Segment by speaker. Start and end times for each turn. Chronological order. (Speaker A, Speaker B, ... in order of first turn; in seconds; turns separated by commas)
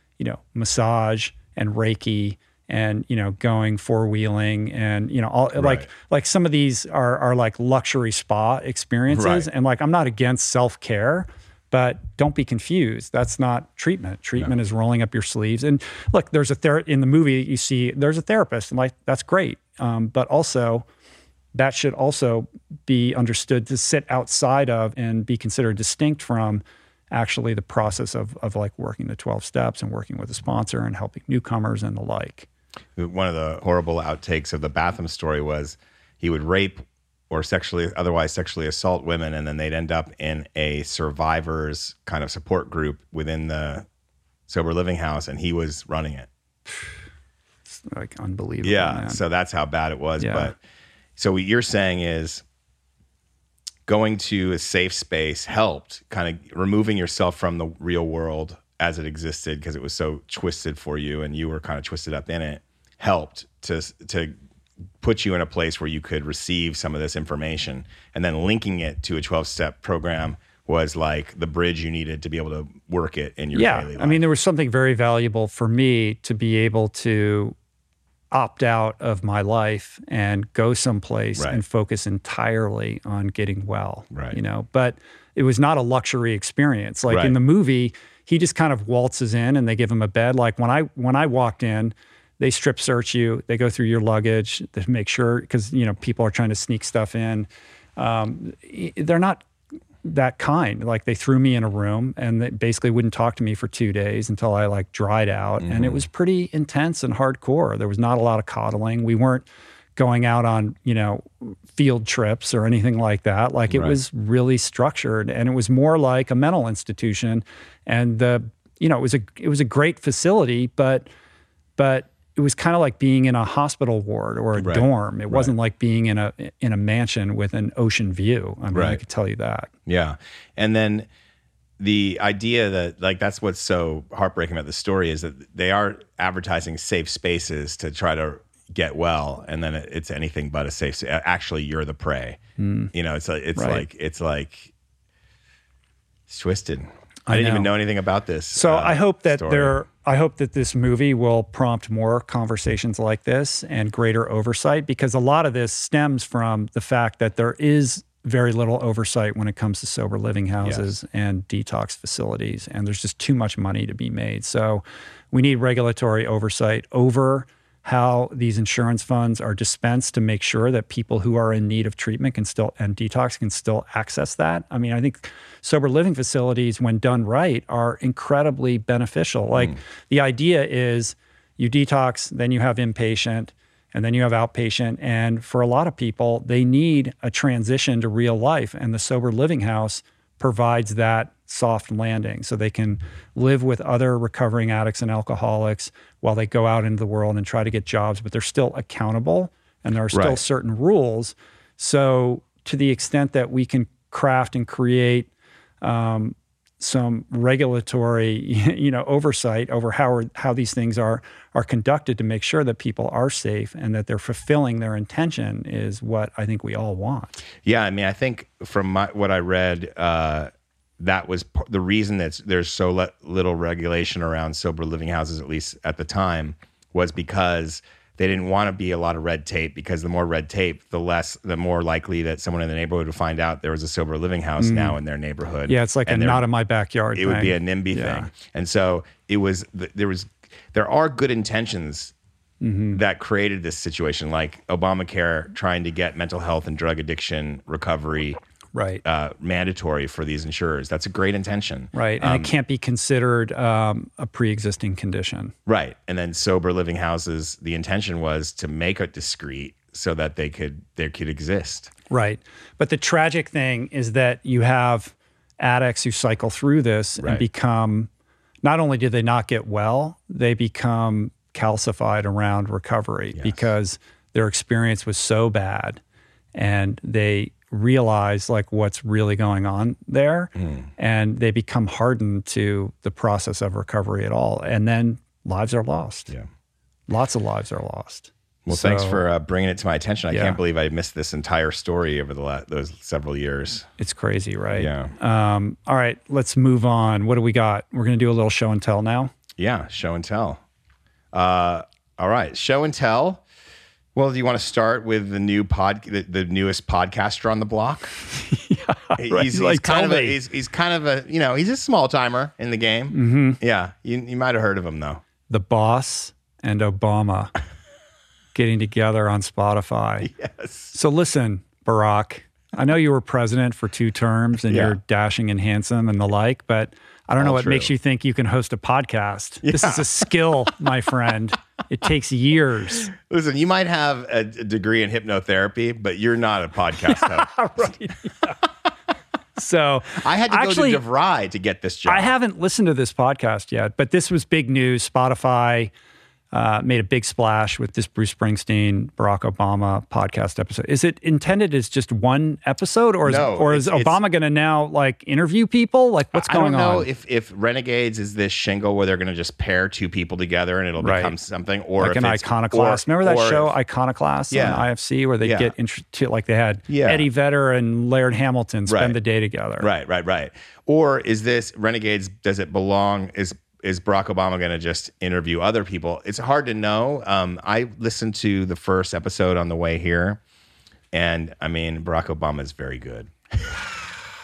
Speaker A: 0.2-20.9, Speaker B: 5.6-5.9, Speaker B: 9.1-9.5, Speaker A: 21.5-32.5, Speaker B: 33.0-43.9, Speaker B: 44.5-46.3, Speaker A: 47.7-49.2, Speaker B: 48.6-50.6, Speaker A: 50.2-50.5, Speaker B: 51.2-52.4, Speaker B: 53.9-64.3, Speaker B: 65.0-74.2, Speaker A: 73.5-77.6, Speaker A: 78.3-99.5, Speaker B: 84.1-84.4, Speaker B: 87.1-87.4, Speaker A: 100.0-121.1, Speaker B: 105.6-106.0, Speaker B: 113.7-114.0, Speaker A: 121.8-129.7, Speaker B: 124.6-125.5, Speaker B: 128.7-129.0, Speaker B: 129.9-131.1, Speaker B: 131.8-142.4, Speaker A: 142.6-142.9, Speaker B: 142.9-144.7, Speaker A: 143.6-143.9, Speaker B: 146.3-149.8, Speaker A: 147.3-147.7, Speaker A: 148.5-205.3, Speaker B: 160.6-160.9, Speaker B: 200.1-200.4, Speaker A: 205.8-217.4, Speaker B: 217.6-236.4, Speaker A: 234.6-235.0, Speaker A: 235.7-238.3, Speaker B: 237.2-242.1, Speaker A: 242.6-243.0, Speaker B: 242.9-248.4, Speaker A: 248.7-249.0, Speaker B: 249.1-252.5, Speaker A: 251.9-255.5, Speaker B: 255.7-261.9, Speaker A: 262.1-268.1, Speaker B: 267.2-267.4, Speaker A: 268.6-276.0, Speaker B: 273.4-273.7, Speaker A: 276.6-286.3, Speaker B: 280.6-280.9, Speaker A: 287.1-289.2, Speaker B: 288.7-293.9, Speaker A: 290.3-290.6, Speaker A: 294.0-299.3, Speaker B: 294.8-295.1, Speaker B: 299.6-300.6, Speaker B: 301.3-303.4, Speaker B: 304.1-308.2, Speaker A: 308.3-310.4, Speaker B: 309.2-315.2, Speaker A: 313.1-313.6, Speaker A: 315.5-317.5, Speaker A: 318.6-320.3, Speaker B: 320.2-320.9, Speaker A: 320.9-333.1, Speaker B: 324.7-325.0, Speaker B: 327.4-327.9, Speaker B: 329.7-330.2, Speaker B: 333.1-337.6, Speaker A: 337.1-338.6, Speaker A: 339.6-341.0, Speaker B: 340.2-342.3, Speaker A: 342.1-345.9, Speaker A: 346.5-357.1, Speaker B: 353.3-354.2, Speaker B: 356.3-363.7, Speaker A: 361.0-361.3, Speaker A: 362.0-369.9, Speaker B: 364.5-364.9, Speaker B: 365.4-365.7, Speaker B: 366.9-367.2, Speaker B: 368.9-369.2, Speaker B: 369.8-380.4, Speaker B: 381.1-384.3